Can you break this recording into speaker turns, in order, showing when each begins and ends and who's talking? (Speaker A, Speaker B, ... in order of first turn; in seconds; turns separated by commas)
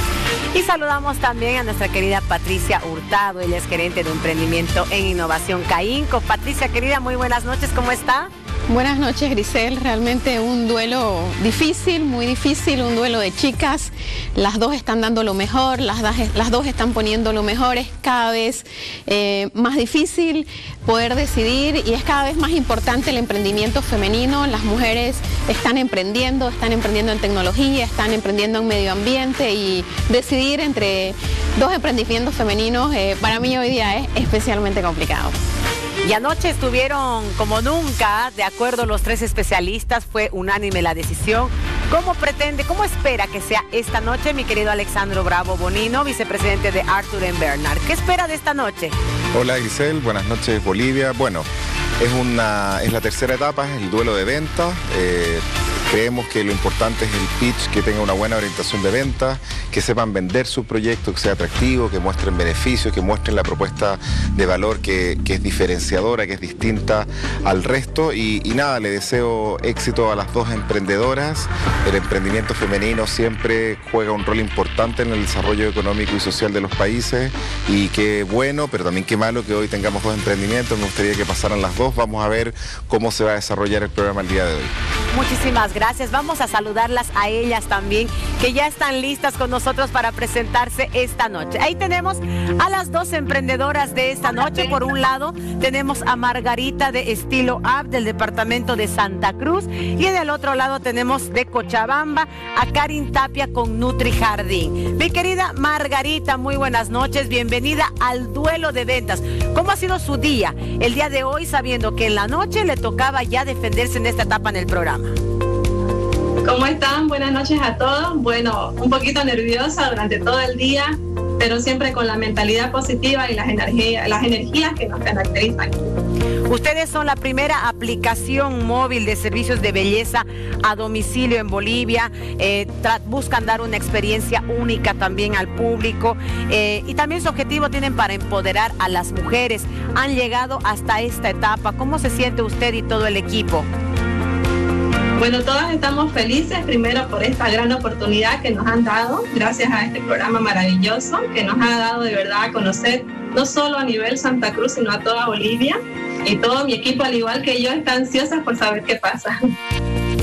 Speaker A: 0.5-8.3, Speaker B: 8.7-35.4, Speaker A: 36.0-49.0, Speaker C: 49.3-51.5, Speaker C: 52.0-84.7, Speaker A: 85.1-115.1, Speaker D: 116.4-125.9, Speaker A: 126.5-143.7, Speaker D: 145.2-159.5